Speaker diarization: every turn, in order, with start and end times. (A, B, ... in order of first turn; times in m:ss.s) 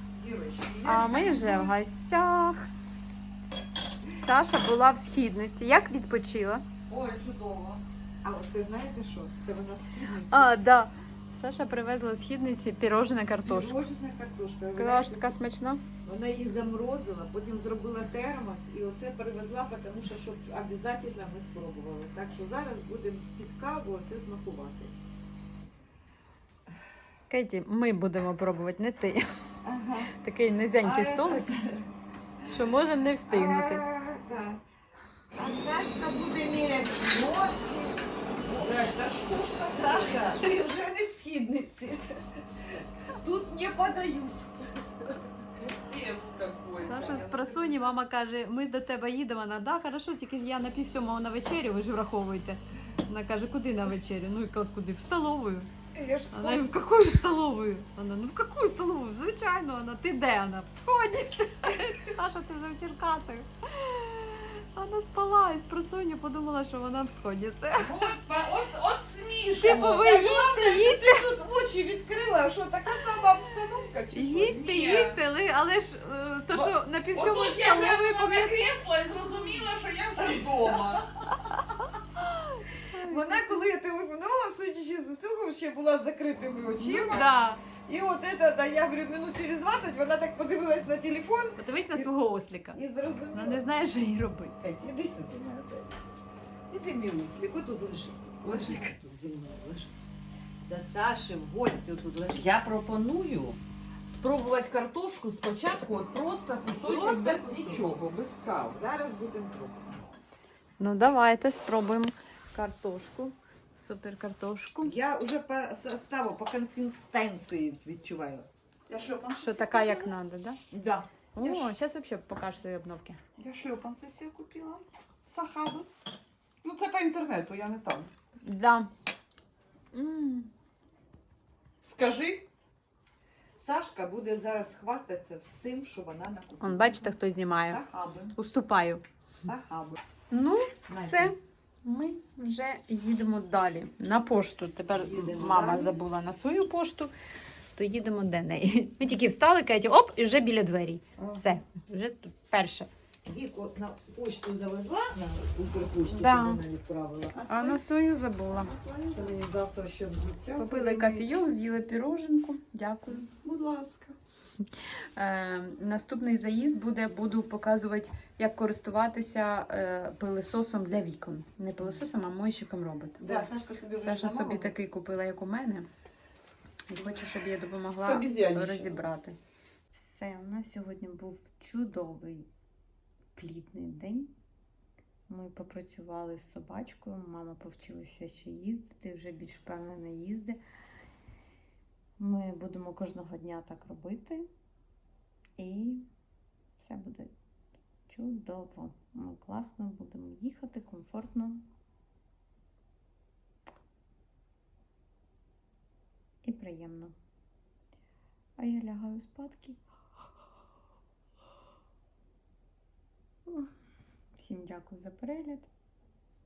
0:00.2-0:01.6 A
0:00.2-0:01.7 B
0:00.8-0:02.7 C
0:04.2-0:06.6 C
0:06.9-0:10.6 B
0:10.3-0:13.8 C
0:13.4-0:15.4 B
0:14.6-0:15.8 C
0:16.0-0:25.0 B
0:27.3-0:29.3 C
0:29.6-0:30.2 B
0:30.2-0:31.5 C
0:30.8-0:31.9 B
0:32.4-0:33.8 C
0:33.3-0:34.6 B
0:35.3-0:38.9 B
0:38.5-0:40.5 A
0:39.5-0:45.3 B
0:45.6-0:47.5 A
0:46.8-0:55.7 C
0:47.4-0:47.8 B
0:55.9-0:56.7 B
0:56.3-1:08.0 C
1:07.8-1:10.0 A
1:09.5-1:11.2 C
1:09.6-1:14.7 B
1:14.1-1:18.6 C
1:14.5-1:15.2 A
1:16.5-1:21.1 A
1:22.6-1:23.6 C
1:23.0-1:32.1 B
1:26.8-1:27.6 C
1:31.6-1:32.8 C
1:32.7-1:33.6 B
1:33.3-1:34.6 C
1:34.6-1:36.0 B
1:36.7-1:40.0 B
1:38.4-1:39.0 C
1:40.7-1:42.6 B
1:42.3-1:48.8 A
1:46.8-1:47.9 B
1:48.7-1:50.0 B
1:50.8-1:54.9 C
1:54.8-1:58.5 B
1:58.9-2:00.1 A
1:59.4-2:00.6 C
2:00.7-2:01.7 B
2:01.4-2:03.2 C
2:03.4-2:05.9 A
2:06.6-2:08.1 A
2:08.4-2:08.9 C
2:09.9-2:10.5 C
2:11.8-2:12.5 A
2:13.6-2:18.3 B
2:16.6-2:17.8 C
2:18.4-2:19.0 C
2:19.4-2:20.0 B
2:20.3-2:27.1 C
2:20.9-2:21.3 B
2:24.9-2:26.0 B
2:27.8-2:32.9 C
2:31.2-2:31.5 B
2:33.2-2:37.8 B
2:36.0-2:36.6 C
2:37.5-2:38.7 C
2:38.5-2:39.6 B
2:39.1-2:40.7 A
2:40.2-2:41.3 B
2:40.6-2:43.3 C
2:43.3-2:44.1 B
2:44.8-2:55.9 C
2:53.2-2:54.8 B
2:56.9-2:59.4 C
2:58.0-2:59.1 B
2:59.9-3:02.5 C
3:03.4-3:04.3 C
3:05.3-3:10.6 C
3:12.2-3:14.5 C
3:15.6-3:16.1 C
3:16.8-3:17.3 C
3:18.1-3:21.7 C
3:26.4-3:27.2 C
3:28.6-3:29.8 C
3:34.4-3:35.7 C